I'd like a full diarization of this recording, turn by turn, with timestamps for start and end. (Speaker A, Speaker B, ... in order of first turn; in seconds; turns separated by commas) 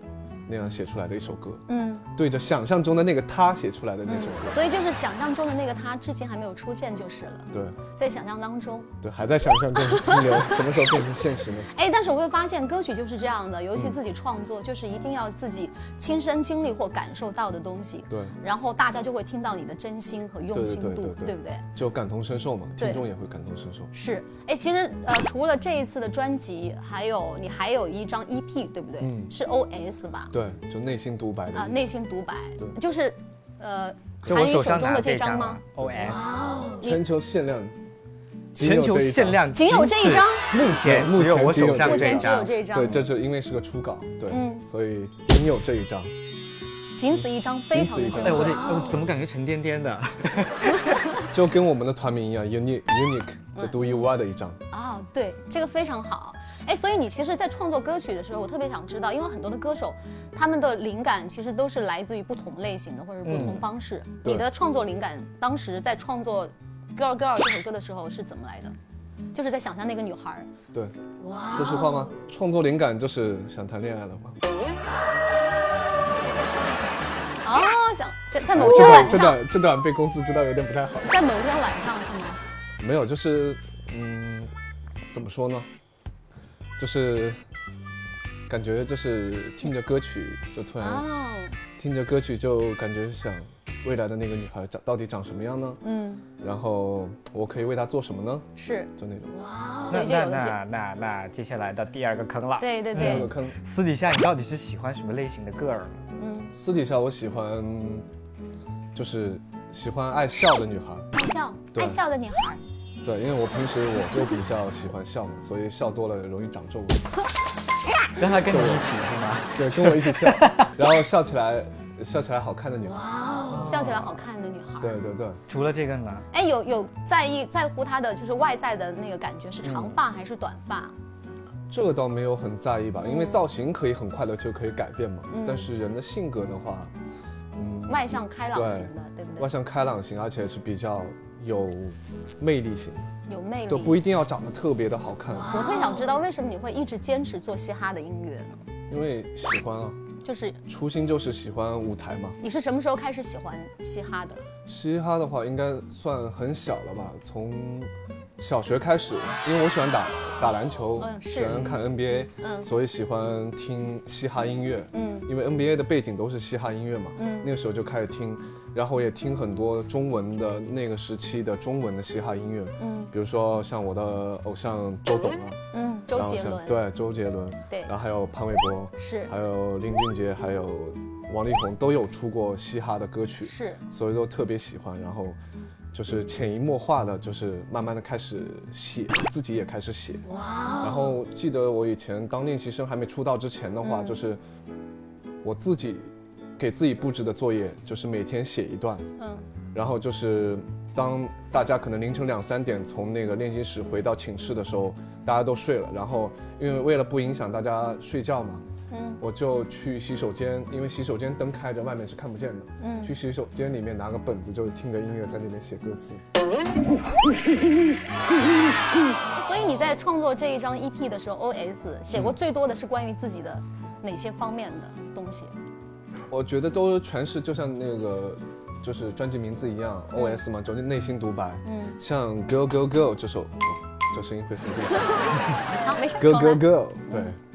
Speaker A: 0.5-1.6, Speaker B: 1.7-2.0, Speaker A: 2.1-4.6, Speaker B: 4.0-8.9, Speaker A: 7.5-7.8, Speaker A: 9.0-11.7, Speaker B: 9.7-10.7, Speaker B: 11.7-21.6, Speaker A: 18.1-18.3, Speaker A: 20.5-23.9, Speaker B: 22.8-23.0, Speaker B: 23.9-30.3, Speaker A: 29.0-29.3, Speaker A: 30.3-31.9, Speaker B: 31.5-35.6, Speaker C: 34.2-36.4, Speaker A: 36.8-37.7, Speaker A: 38.5-39.4, Speaker C: 38.6-42.9, Speaker B: 39.5-40.4, Speaker A: 40.5-46.1, Speaker B: 41.8-43.0, Speaker B: 44.3-44.6, Speaker B: 46.9-48.8, Speaker A: 47.7-48.6, Speaker C: 48.2-51.0, Speaker A: 51.3-54.6, Speaker B: 53.5-54.0, Speaker B: 54.7-68.7, Speaker C: 63.2-63.6, Speaker B: 69.3-70.5, Speaker A: 71.5-74.4, Speaker B: 77.4-79.4, Speaker A: 78.5-81.1, Speaker B: 81.1-82.4, Speaker A: 82.8-84.5, Speaker A: 85.1-85.7, Speaker A: 86.8-87.4, Speaker A: 88.5-91.0, Speaker B: 90.8-91.5, Speaker A: 91.8-95.8, Speaker B: 95.8-96.2, Speaker A: 96.4-99.3, Speaker B: 98.6-98.9, Speaker C: 99.9-106.0, Speaker B: 99.9-100.6, Speaker B: 102.6-103.3, Speaker A: 102.9-103.6, Speaker B: 106.2-106.5, Speaker A: 106.5-108.0, Speaker A: 108.9-111.1, Speaker B: 111.1-112.6, Speaker A: 111.7-112.0, Speaker A: 113.0-117.1, Speaker C: 118.1-120.7, Speaker A: 118.5-118.8, Speaker A: 119.5-124.1, Speaker C: 123.5-123.7, Speaker B: 123.6-124.9, Speaker A: 124.8-125.4, Speaker C: 125.5-126.2, Speaker B: 126.3-130.9, Speaker C: 129.6-129.9, Speaker A: 131.7-136.9, Speaker B: 133.0-133.4, Speaker B: 135.3-135.7, Speaker A: 137.6-143.1, Speaker B: 137.9-139.5, Speaker B: 143.3-144.0, Speaker A: 143.7-145.5, Speaker B: 145.5-148.6, Speaker A: 148.9-150.0, Speaker B: 150.2-150.6, Speaker A: 150.7-152.4, Speaker B: 152.4-154.4, Speaker A: 154.7-175.6, Speaker B: 161.0-161.8, Speaker B: 162.4-162.7, Speaker B: 164.9-165.3, Speaker B: 167.2-167.5, Speaker B: 172.8-173.1, Speaker B: 175.7-176.8, Speaker A: 176.1-185.4, Speaker B: 179.0-179.3, Speaker B: 183.4-183.8, Speaker A: 185.9-190.2, Speaker A: 190.8-194.4, Speaker B: 193.8-194.2, Speaker A: 195.4-199.1, Speaker B: 199.2-199.4, Speaker A: 199.7-208.6, Speaker B: 208.9-209.2, Speaker A: 209.2-216.2, Speaker B: 212.8-213.1, Speaker B: 219.3-225.5, Speaker A: 226.3-237.4, Speaker B: 230.1-230.4, Speaker B: 231.6-232.0, Speaker B: 235.8-237.3